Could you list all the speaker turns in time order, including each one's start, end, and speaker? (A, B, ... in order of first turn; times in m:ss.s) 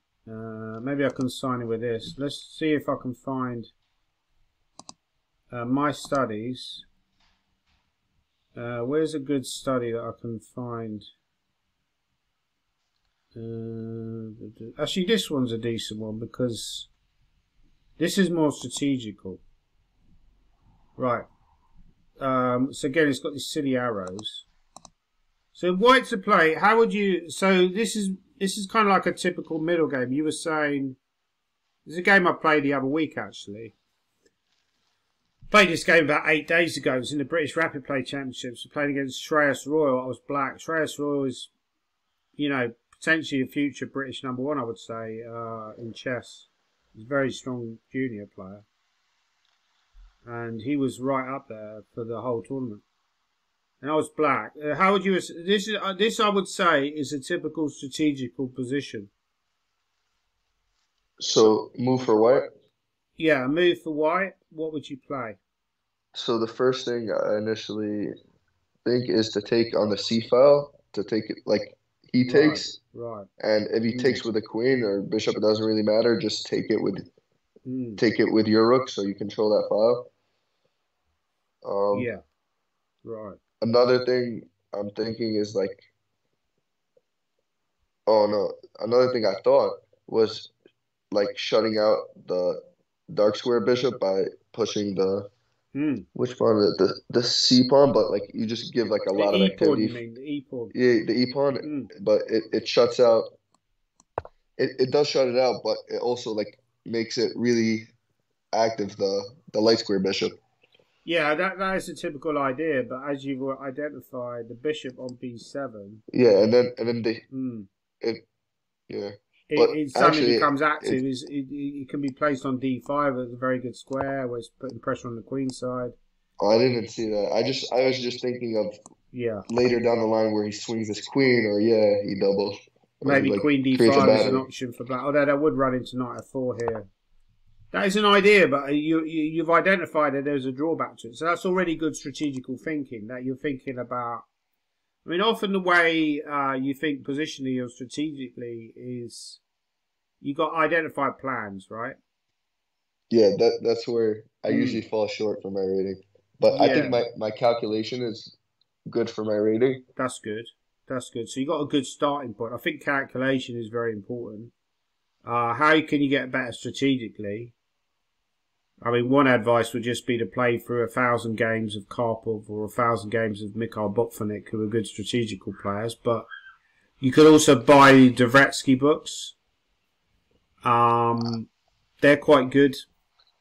0:00.3-0:03.7 A
0:05.5-0:06.9 A
0:08.6-0:11.1 A
0:13.4-0:16.9 A
0:18.0-0:19.4 A
0:21.0-0:21.3 A
0:22.2-0:24.5 A
0:25.5-0:31.0 A
0:31.9-0:33.7 A
0:35.5-0:41.5 A
0:42.4-0:48.6 A
0:50.3-0:52.8 A
0:53.8-0:59.1 A
1:01.2-1:02.5 B
1:03.2-1:05.4 A
1:06.1-1:08.1 B
1:08.8-1:12.8 B
1:12.3-1:13.3 A
1:13.4-1:17.0 B
1:13.9-1:14.2 A
1:17.6-1:18.0 A
1:18.0-1:20.1 B
1:21.6-1:22.1 B
1:21.9-1:22.2 A
1:23.0-1:23.4 A
1:23.6-1:25.9 B
1:28.1-1:30.5 B
1:31.1-1:35.3 B
1:35.7-1:36.1 A
1:36.2-1:40.0 B
1:39.1-1:40.7 A
1:40.7-1:43.3 B
1:41.6-1:41.9 A
1:44.6-1:47.9 B
1:48.5-1:50.4 B
1:51.0-1:56.0 A
1:56.1-1:57.2 B
1:57.3-1:57.7 A
1:58.9-2:01.0 B
1:59.5-2:06.0 A
2:06.4-2:08.8 B
2:09.1-2:09.4 A
2:09.5-2:14.4 B
2:13.0-2:16.9 A
2:17.7-2:24.2 A
2:25.0-2:29.4 A
2:30.2-2:32.0 A
2:33.1-2:38.4 B
2:34.5-2:34.8 A
2:36.5-2:37.0 A
2:38.9-2:39.8 B
2:40.0-2:44.5 A
2:45.2-2:47.5 A
2:48.8-2:56.3 A
2:57.0-2:59.4 A
3:00.6-3:01.5 A
3:02.0-3:02.8 A